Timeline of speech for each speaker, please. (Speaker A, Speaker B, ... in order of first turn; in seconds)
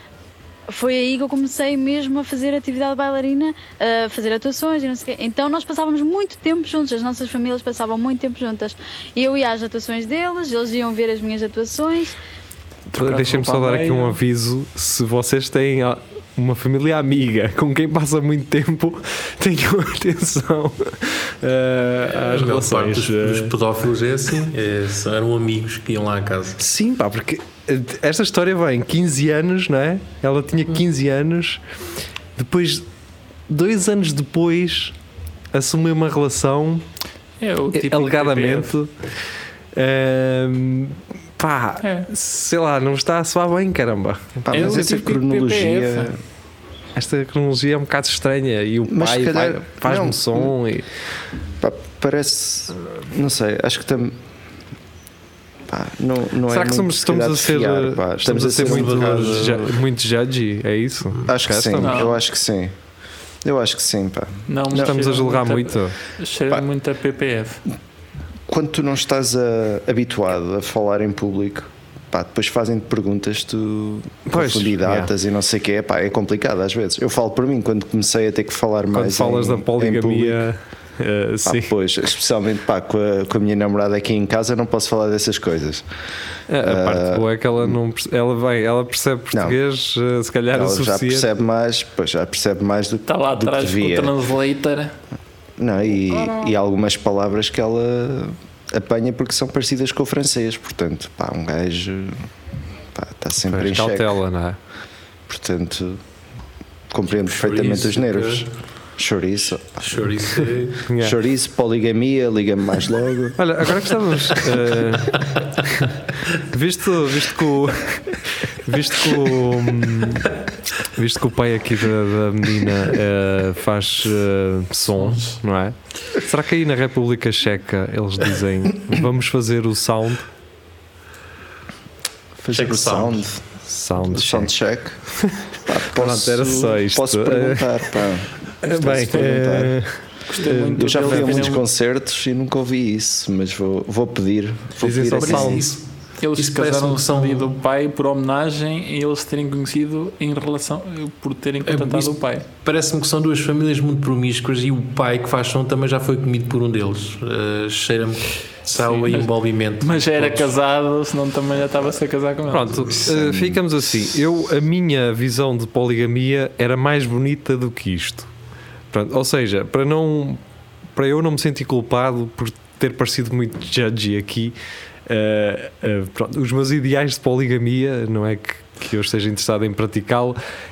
Speaker A: 0.7-12.2
Speaker B: 12.9-23.5, 26.6-31.6, 32.4-32.9, 33.5-34.9, 35.5-36.9, 37.7-38.9, 39.7-44.9, 47.0-50.9, 56.5-62.1, 64.7-66.0, 74.3-75.1, 78.9-81.7, 86.5-91.3, 103.5-104.6, 110.9-111.2, 113.4-120.3, 120.8-130.3, 133.7-134.5, 135.9-138.0, 138.6-141.6, 144.8-145.8, 162.5-168.3, 168.9-170.4, 170.9-174.6, 175.1-180.4
Speaker C: 12.9-14.2, 37.4-38.8, 41.8-42.1, 44.5-46.1, 61.8-62.2, 64.5-67.6, 93.1-94.9, 124.9-125.4, 140.3-141.7, 146.2-152.4, 158.8-162.9
Speaker D: 22.2-26.6, 58.5-59.8, 107.2-108.5, 109.8-110.8, 115.2-115.7, 132.5-133.3, 145.2-145.8, 146.4-147.5, 151.6-160.6
Speaker E: 44.4-46.2, 48.9-50.5, 51.6-54.1, 55.7-59.7, 61.3-62.8, 63.4-64.9, 68.5-80.4, 81.4-85.8, 86.6-87.8, 90.5-94.1, 95.6-102.3, 102.9-104.1, 105.3-106.0, 106.9-110.4, 111.0-113.4, 132.4-133.4, 134.0-135.1, 135.6-139.8, 140.8-145.7, 163.0-163.6